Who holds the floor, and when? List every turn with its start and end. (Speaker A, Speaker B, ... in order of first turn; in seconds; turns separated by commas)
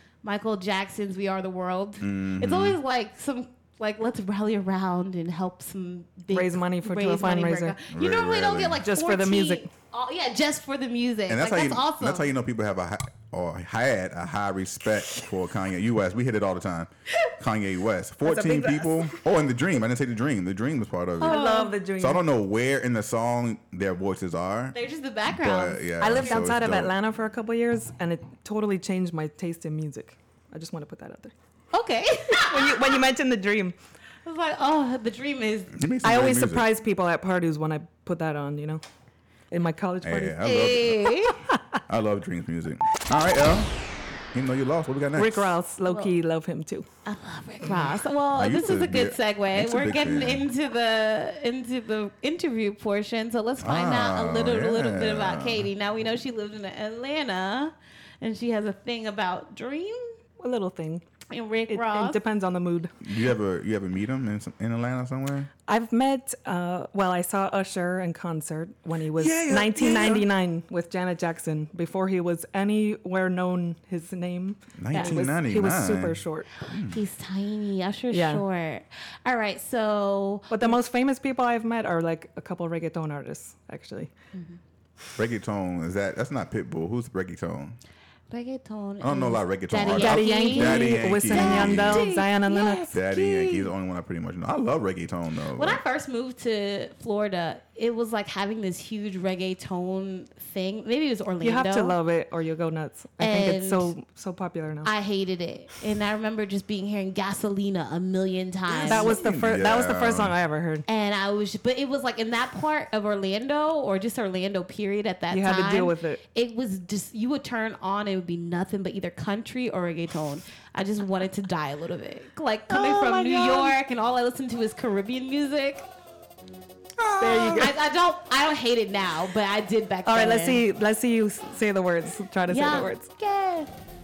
Speaker A: 0.2-12.3, Speaker B: 2.0-2.8, Speaker C: 6.3-7.8, Speaker B: 7.9-8.8, Speaker C: 8.8-9.7, Speaker B: 11.3-21.4, Speaker C: 18.2-19.2, Speaker C: 21.2-22.2, Speaker A: 21.2-21.8, Speaker B: 22.0-24.8, Speaker A: 24.7-25.9, Speaker B: 25.3-26.9, Speaker C: 26.0-31.3, Speaker A: 31.7-33.0, Speaker C: 32.3-33.8, Speaker A: 34.2-35.8, Speaker B: 35.7-36.7, Speaker C: 36.0-38.8, Speaker C: 39.5-40.4, Speaker B: 40.0-41.2, Speaker A: 40.4-41.4, Speaker B: 41.9-43.7, Speaker B: 44.3-45.6, Speaker C: 45.1-46.9, Speaker A: 45.9-46.1, Speaker A: 47.0-60.2, Speaker B: 48.3-50.5, Speaker B: 53.6-55.7, Speaker C: 60.4-61.0, Speaker A: 61.3-62.2, Speaker C: 61.7-62.9, Speaker B: 63.0-65.5, Speaker C: 65.7-76.5, Speaker B: 69.2-70.3, Speaker B: 74.8-77.0, Speaker A: 74.9-75.2, Speaker A: 76.8-80.8, Speaker C: 78.1-78.4, Speaker C: 80.5-84.1, Speaker A: 84.3-84.6, Speaker B: 85.2-87.8, Speaker A: 88.3-93.7, Speaker B: 89.0-92.1, Speaker C: 89.9-92.9, Speaker B: 92.9-95.8, Speaker A: 95.6-101.9, Speaker C: 101.4-104.9, Speaker A: 103.2-103.9, Speaker A: 104.8-109.2, Speaker C: 108.8-110.8, Speaker B: 108.8-110.3, Speaker A: 110.9-125.9, Speaker C: 115.3-116.2, Speaker C: 122.7-123.7, Speaker B: 127.0-127.7, Speaker C: 127.2-127.7, Speaker A: 127.6-130.6, Speaker C: 130.1-133.1, Speaker A: 132.5-133.7